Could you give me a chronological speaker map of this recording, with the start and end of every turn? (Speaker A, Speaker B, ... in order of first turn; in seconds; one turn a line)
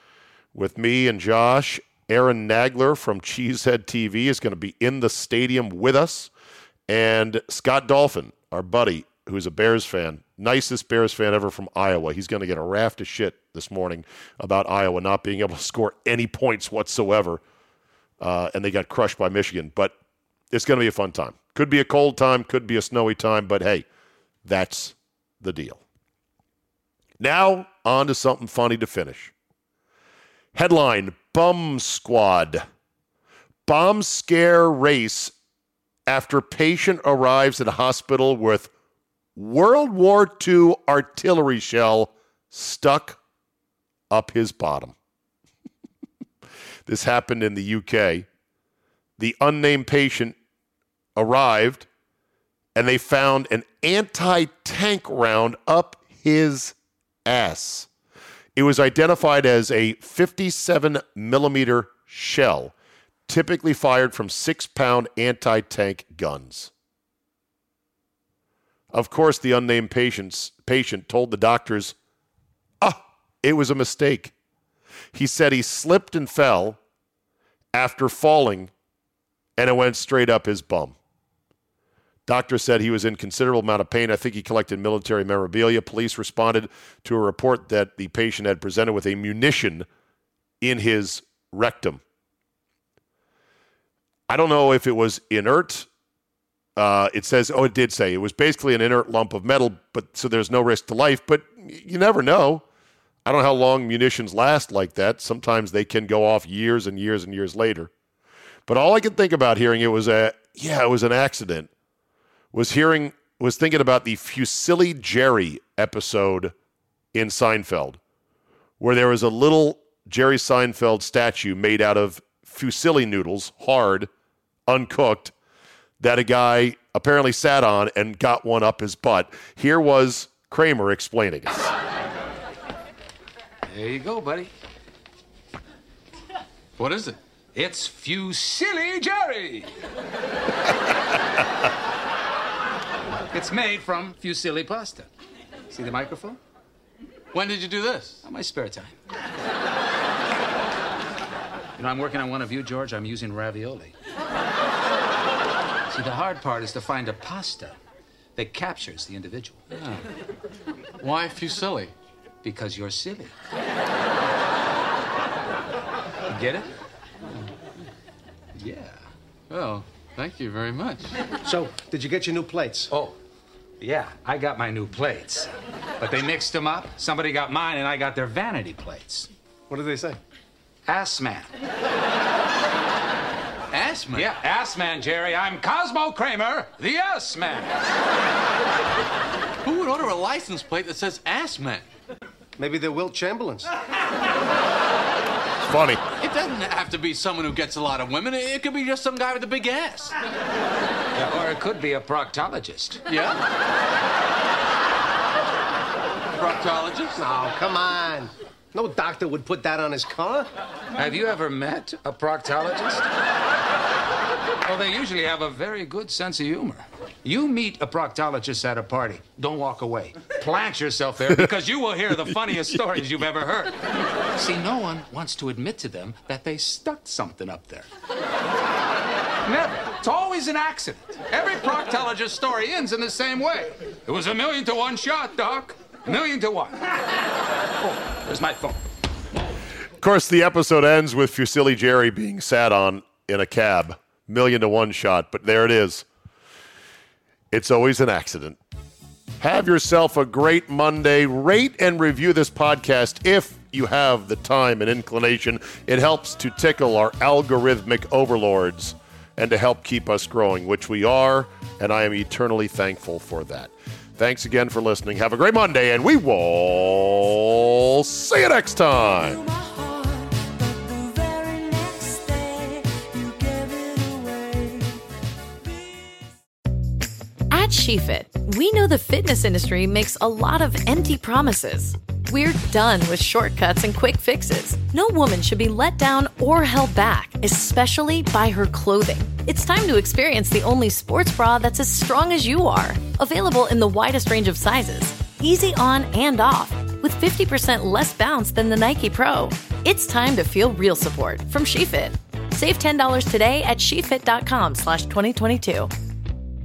Speaker A: 0.5-6.3
Speaker A: 6.9-17.4
Speaker A: 18.2-19.9
Speaker A: 20.5-23.8
Speaker A: 24.4-25.8
Speaker A: 27.2-29.3
Speaker A: 30.5-32.6
Speaker A: 33.6-35.3
Speaker A: 36.1-38.7
Speaker A: 39.4-43.2
Speaker A: 44.1-44.9
Speaker A: 46.9-48.3
Speaker A: 49.2-50.4
Speaker A: 51.1-51.9
Speaker A: 52.7-57.9
Speaker A: 58.5-62.7
Speaker A: 63.3-66.7
Speaker A: 68.9-71.9
Speaker A: 72.8-74.3
Speaker A: 75.1-76.8
Speaker A: 77.7-78.7
Speaker A: 79.6-81.0
Speaker A: 82.3-89.9
Speaker A: 90.6-92.0
Speaker A: 94.3-95.9
Speaker A: 96.8-102.6
Speaker A: 103.2-107.9
Speaker A: 108.7-111.7
Speaker A: 112.5-116.5
Speaker A: 117.1-118.0
Speaker A: 118.8-124.1
Speaker A: 124.7-125.3
Speaker A: 126.0-131.7
Speaker B: 133.7-134.5
Speaker C: 136.8-137.2
Speaker B: 137.5-139.7
Speaker B: 143.3-145.1
Speaker B: 145.7-146.4
Speaker C: 147.3-148.2
Speaker B: 148.2-148.9
Speaker B: 151.8-153.9
Speaker B: 155.9-157.8
Speaker B: 158.3-159.7
Speaker C: 159.7-160.0
Speaker C: 161.0-161.9
Speaker B: 162.4-163.3
Speaker B: 166.3-166.7
Speaker B: 168.6-168.9
Speaker C: 169.5-171.2
Speaker D: 171.4-172.9
Speaker B: 173.8-179.3
Speaker D: 179.7-180.2
Speaker B: 180.8-181.5
Speaker C: 183.7-184.4
Speaker B: 184.1-187.8
Speaker C: 189.6-191.8
Speaker D: 192.6-193.7
Speaker A: 195.6-196.0
Speaker C: 196.2-200.1
Speaker B: 201.2-203.0
Speaker C: 203.1-203.4
Speaker C: 206.3-207.2
Speaker D: 207.2-210.5
Speaker B: 211.0-213.1
Speaker B: 214.7-223.8
Speaker B: 224.3-227.9
Speaker B: 229.4-236.9
Speaker B: 237.8-238.8
Speaker A: 240.0-246.1
Speaker A: 247.5-248.6
Speaker A: 249.4-269.4
Speaker D: 269.1-275.0
Speaker D: 275.6-276.2
Speaker E: 277.5-305.9